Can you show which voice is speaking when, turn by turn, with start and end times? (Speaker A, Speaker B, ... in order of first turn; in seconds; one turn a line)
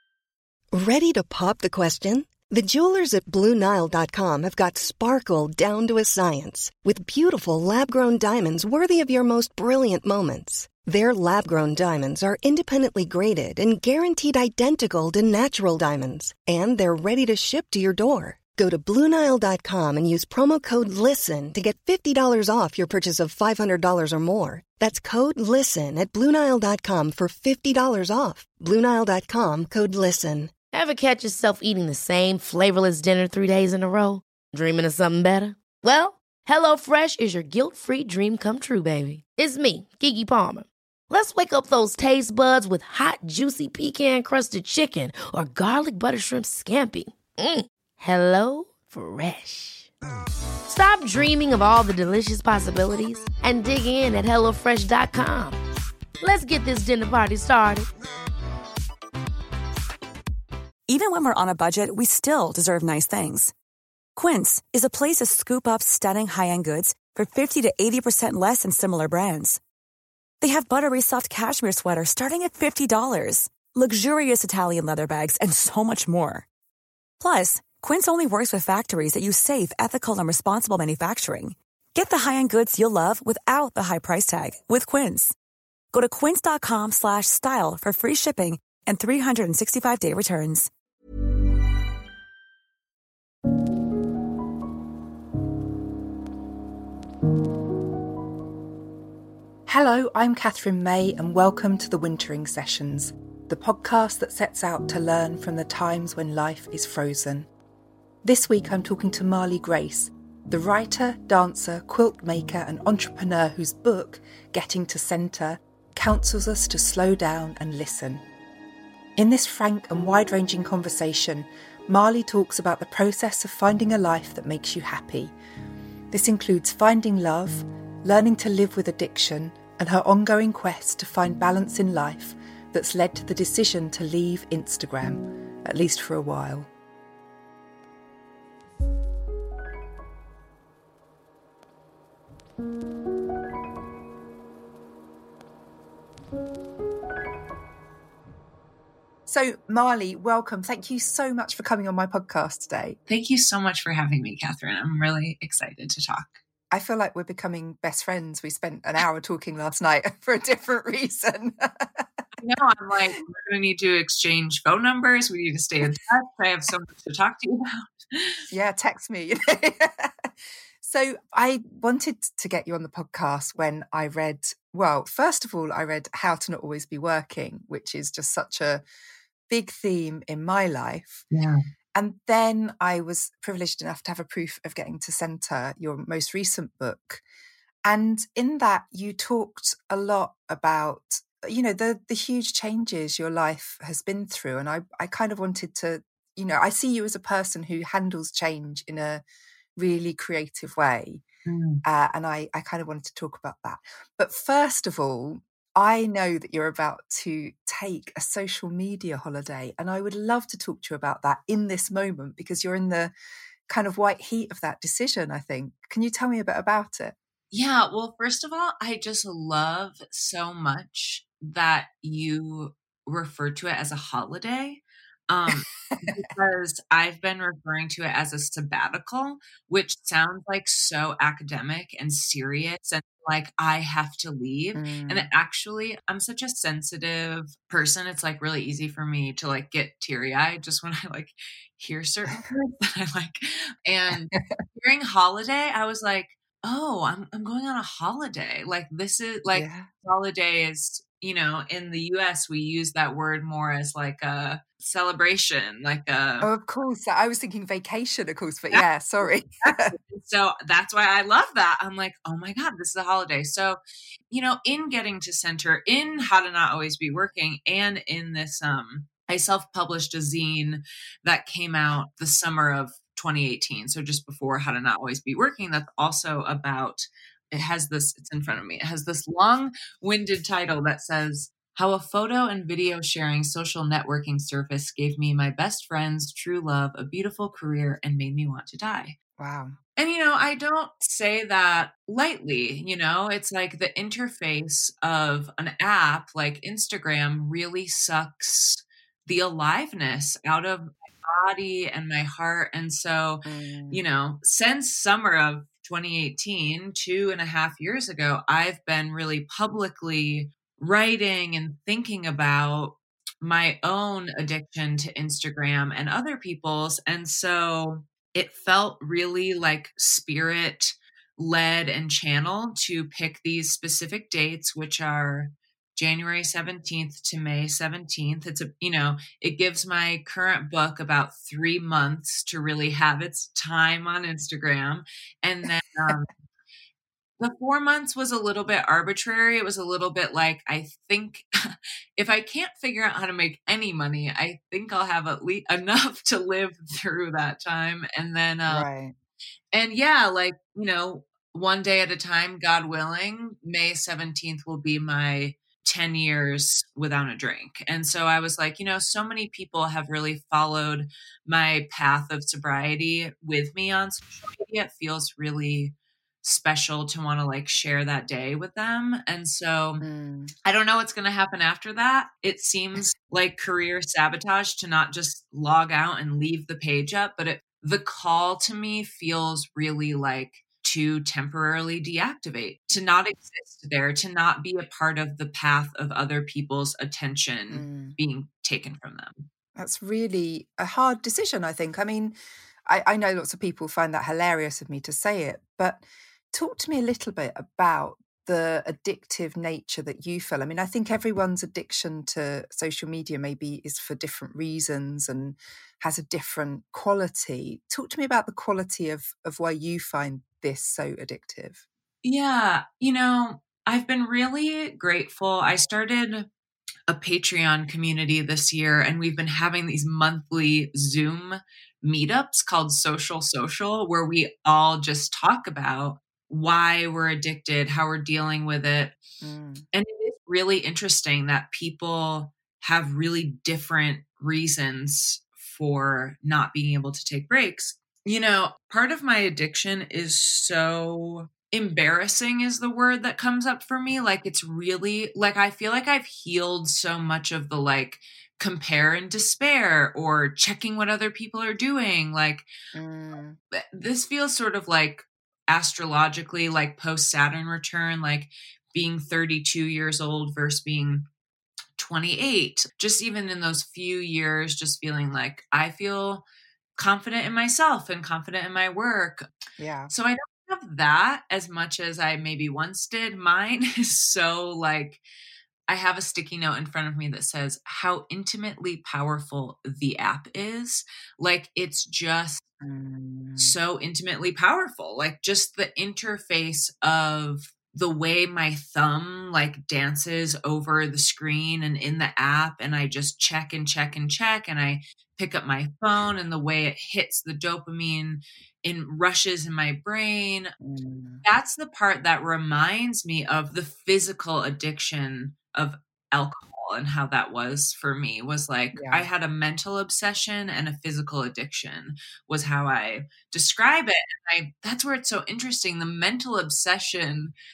Speaker A: 0.7-30.5
Speaker B: 30.7-49.9
Speaker B: 50.7-55.6
Speaker B: 56.2-57.9
Speaker C: 60.9-63.5
Speaker C: 64.2-69.6
Speaker C: 70.4-76.5
Speaker C: 77.2-85.3
Speaker C: 85.9-90.7
Speaker D: 99.7-107.5
Speaker D: 108.2-118.2
Speaker D: 119.2-125.3
Speaker D: 126.1-136.7
Speaker D: 149.3-153.0
Speaker E: 153.1-156.4
Speaker D: 156.7-162.1
Speaker E: 162.4-168.4
Speaker D: 168.5-170.3
Speaker D: 170.8-178.8
Speaker D: 179.5-181.3
Speaker E: 181.3-181.6
Speaker D: 181.9-187.2
Speaker D: 187.8-199.2
Speaker D: 199.8-201.2
Speaker E: 201.4-201.8
Speaker D: 201.8-213.1
Speaker D: 213.7-217.1
Speaker E: 217.5-256.5
Speaker D: 234.7-235.3
Speaker D: 249.5-249.9
Speaker D: 256.4-259.9
Speaker E: 259.6-263.8
Speaker E: 264.3-289.1
Speaker D: 289.4-289.8
Speaker E: 290.0-336.3
Speaker D: 303.4-304.0
Speaker E: 337.4-348.9
Speaker D: 348.7-349.1
Speaker E: 349.7-370.0
Speaker D: 370.0-370.5
Speaker E: 370.6-389.4
Speaker D: 387.7-388.2
Speaker D: 389.8-411.8
Speaker E: 412.2-416.5
Speaker E: 417.1-429.1
Speaker D: 429.4-429.9
Speaker E: 429.9-452.7
Speaker D: 452.9-453.6
Speaker E: 453.7-461.2
Speaker E: 462.0-466.4
Speaker E: 467.0-469.5
Speaker D: 469.8-470.1
Speaker E: 470.1-475.2
Speaker E: 475.9-482.6
Speaker D: 482.8-483.7
Speaker E: 483.6-500.7
Speaker D: 500.8-501.4
Speaker E: 501.4-517.5
Speaker D: 508.9-509.3